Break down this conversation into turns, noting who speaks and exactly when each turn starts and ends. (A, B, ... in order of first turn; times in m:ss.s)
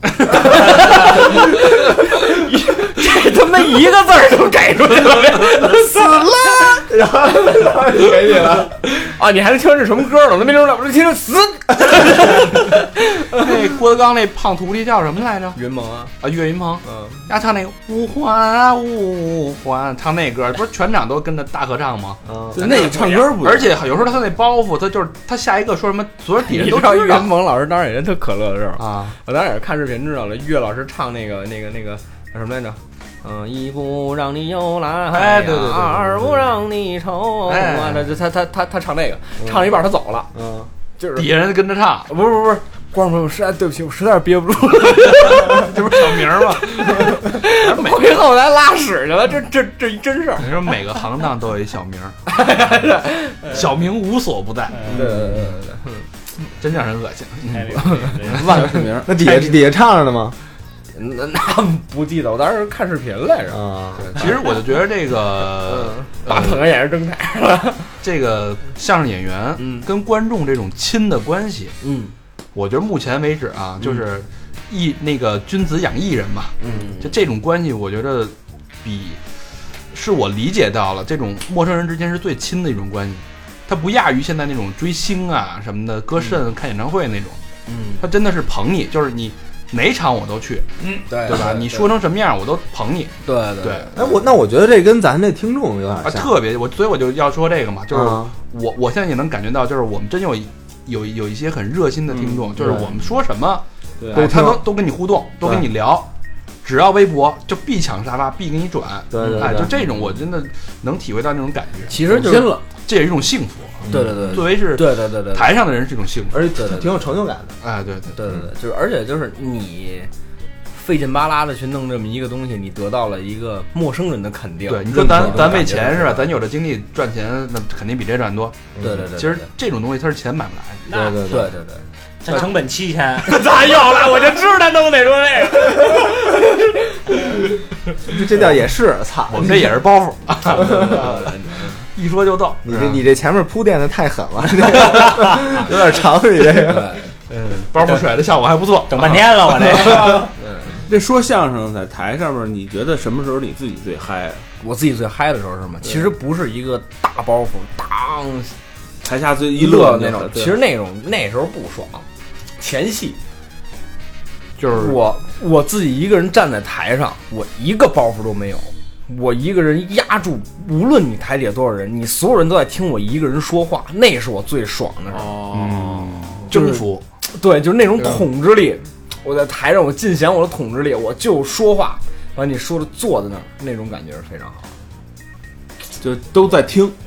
0:00.2-0:01.0 A
0:00.3-0:06.9 B
0:05.8-0:08.8 C
0:08.9-0:13.5 B
0:13.3-0:15.6 A
0:15.6-0:16.2 B
0:16.2-0:27.3 A
0:16.8-0:17.3 B
0:22.3-0:22.6 C
0:22.5-0:23.8 D
0:22.6-0:23.3 B
0:26.4-0:40.3 B
0:28.8-0:29.2 A
0:35.1-0:36.4 A
0:37.5-0:38.1 A
0:39.4-0:39.7 C
0:40.3-0:40.7 C
0:41.0-0:41.3 B
0:41.2-0:42.1 A
0:42.1-0:50.6 B
0:45.2-0:48.1 A
0:50.4-0:52.2 A
0:52.3-0:53.7 B
0:53.5-0:54.9 A
0:54.8-0:55.5 D
0:54.9-0:56.0 B
0:56.6-0:58.2 A
0:57.5-0:58.7 E
0:58.3-0:59.3 D
0:59.0-1:00.4 C
1:00.9-1:03.6 B
1:03.5-1:04.2 C
1:04.0-1:06.6 A
1:05.5-1:08.0 B
1:08.0-1:11.8 A
1:09.6-1:09.9 B
1:11.8-1:12.1 B
1:12.5-1:19.2 A
1:16.6-1:17.1 B
1:19.9-1:27.4 A
1:27.7-1:28.0 B
1:28.0-1:33.9 A
1:31.1-1:31.9 B
1:33.2-1:34.1 B
1:34.0-1:36.3 C
1:36.0-1:46.1 A
1:37.9-1:38.3 C
1:42.1-1:42.9 D
1:42.6-1:42.9 C
1:44.0-1:44.4 D
1:44.1-1:44.7 C
1:46.6-1:52.0 A
1:49.1-1:49.8 C
1:49.2-1:49.7 B
1:51.9-1:52.6 B
1:52.0-1:52.7 D
1:52.8-1:56.4 A
1:53.8-1:54.4 C
1:53.9-1:55.6 B
1:56.3-1:57.6 C
1:56.6-1:56.9 B
1:57.6-1:58.2 A
1:58.2-2:00.1 B
2:00.7-2:06.3 B
2:04.7-2:08.6 A
2:04.9-2:05.8 C
2:08.8-2:09.1 C
2:08.8-2:09.5 B
2:09.1-2:10.9 A
2:10.9-2:11.2 E
2:10.9-2:11.5 C
2:11.3-2:12.5 B
2:12.2-2:13.5 E
2:13.2-2:17.2 B
2:18.0-2:19.7 C
2:19.3-2:21.4 A
2:20.5-2:21.9 B
2:21.9-2:23.0 A
2:22.6-2:27.0 C
2:26.4-2:27.1 B
2:27.3-2:30.2 A
2:28.9-2:30.3 E
2:29.8-2:30.3 D
2:30.4-2:30.8 B
2:30.8-2:34.4 D
2:34.6-2:38.6 B
2:39.0-2:40.6 D
2:39.5-2:42.0 B
2:42.6-2:43.2 B
2:44.6-2:45.0 A
2:44.7-2:55.4 B
2:55.1-2:56.5 D
2:55.5-2:57.0 A
2:56.5-3:04.7 B
3:06.0-3:07.0 D